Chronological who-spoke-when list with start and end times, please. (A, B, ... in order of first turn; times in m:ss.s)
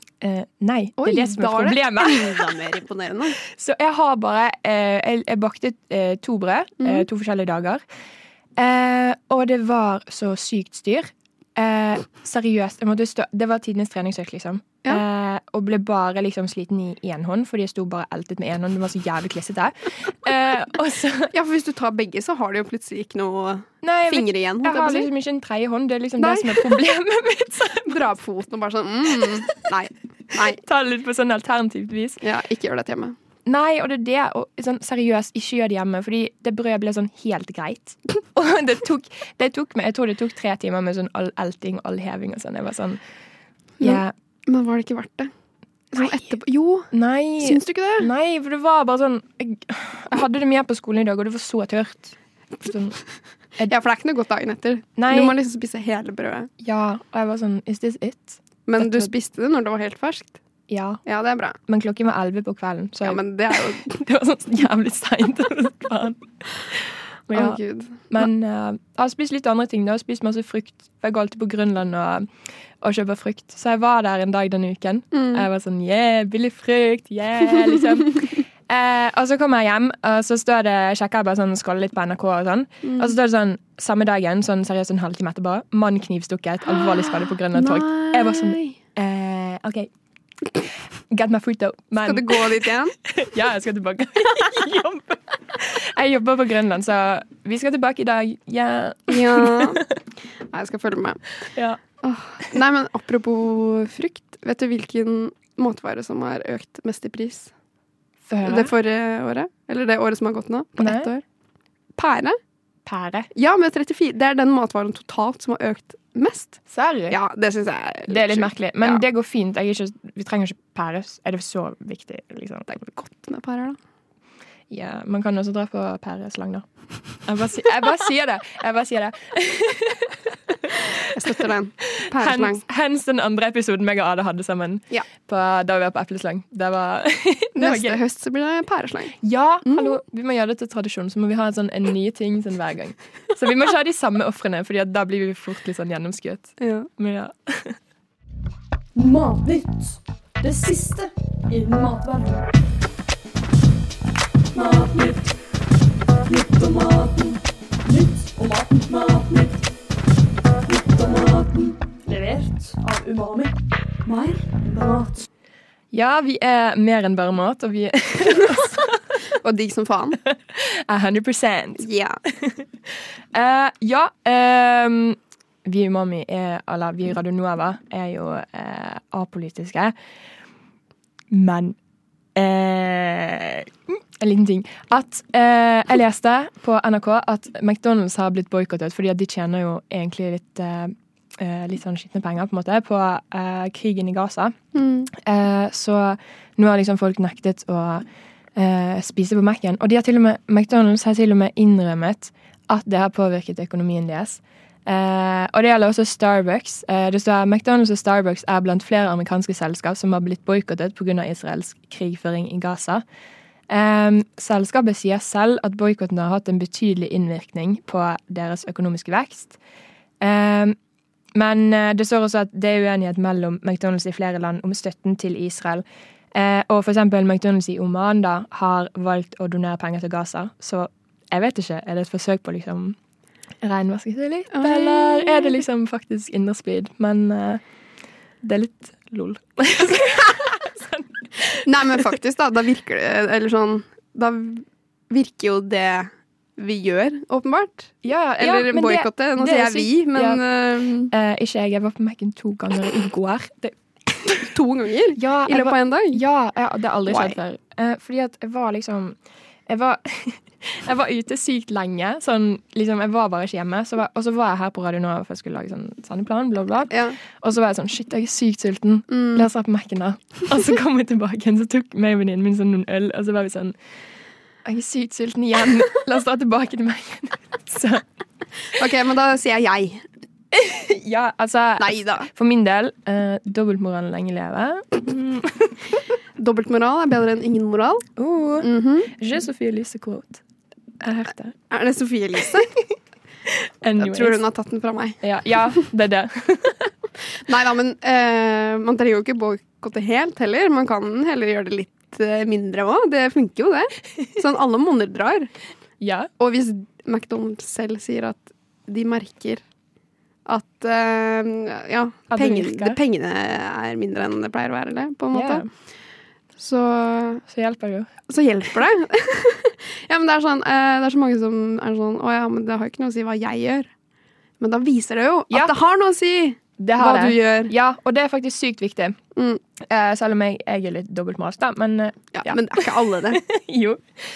0:00.2-0:02.6 A
0:01.0-0:03.4 B
0:03.4-0:07.8 A
0:08.6-0:21.3 A
0:21.3-0:25.1 B
0:23.8-0:28.1 A
0:26.2-0:26.8 B
0:27.9-0:30.6 B
0:30.4-0:32.2 A
0:32.2-0:33.2 B
0:33.5-0:43.0 A
0:43.8-0:45.3 B
0:43.8-0:44.1 A
0:45.9-0:48.1 B
0:46.0-0:46.2 A
0:46.9-0:53.0 A
0:53.7-0:56.5 B
0:55.0-0:55.3 A
0:56.6-0:59.1 A
0:58.7-1:00.4 B
1:00.7-1:01.0 A
1:01.0-1:01.6 B
1:01.7-1:07.6 A
1:03.0-1:03.9 B
1:07.3-1:08.1 B
1:08.1-1:12.3 A
1:12.8-1:29.9 A
1:15.1-1:15.5 B
1:22.8-1:23.1 B
1:26.7-1:28.8 B
1:31.1-1:39.8 A
1:32.0-1:33.0 B
1:39.1-1:39.9 B
1:40.5-1:41.2 B
1:41.6-1:41.8 A
1:42.0-1:47.5 B
1:48.3-1:48.7 A
1:48.4-1:51.2 B
1:50.8-1:51.1 A
1:52.0-1:52.4 B
1:52.9-1:53.3 A
1:53.4-1:59.0 B
1:56.7-1:57.2 A
1:58.1-2:02.9 A
2:02.8-2:03.8 B
2:04.7-2:06.6 A
2:07.2-2:11.4 A
2:11.1-2:12.6 B
2:12.0-2:18.0 A
2:17.6-2:20.0 B
2:19.2-2:27.8 A
2:26.6-2:26.9 B
2:29.0-2:32.5 C
2:34.5-2:35.3 C
2:36.3-2:39.7 C
2:40.6-2:43.5 C
2:44.0-2:45.3 C
2:45.9-2:49.0 A
2:49.3-2:50.2 B
2:50.3-2:51.8 A
2:51.8-2:52.2 B
2:52.4-2:52.7 A
2:53.3-2:59.9 A
3:01.3-3:01.8 A
3:02.4-3:14.6 A
3:14.7-3:15.1 B
3:15.1-3:33.0 A
3:33.7-3:39.6 A
3:40.2-3:40.8 A
3:41.3-3:53.0 A
3:53.6-3:57.6 A
3:54.5-3:55.6 B
3:58.4-4:02.1 A
4:01.6-4:11.1 B
4:08.0-4:10.4 A
4:11.1-4:13.8 A
4:14.3-4:16.2 B
4:15.2-4:33.8 A
4:17.1-4:17.4 B
4:26.9-4:27.2 B
4:29.1-4:29.5 B
4:34.6-4:38.0 A
4:38.7-4:40.0 B
4:40.5-4:45.8 A
4:41.8-4:42.3 B
4:46.4-4:48.1 B
4:48.2-4:50.4 A
4:48.6-4:49.1 B
4:51.0-4:51.6 A
4:51.7-4:52.8 B
4:53.8-4:54.4 A
4:54.0-4:55.2 B
4:55.2-4:56.9 A
4:57.5-5:05.5 B
5:06.0-5:06.3 A
5:06.4-5:09.6 B
5:10.5-5:15.6 B
5:12.3-5:13.0 A
5:15.3-5:15.7 A
5:16.6-5:17.4 B
5:17.5-5:18.1 A
5:18.3-5:23.9 B
5:24.6-5:27.7 B
5:25.5-5:25.8 A
5:26.8-5:29.2 A
5:29.4-5:29.6 B
5:29.8-5:34.0 A
5:32.3-5:33.4 B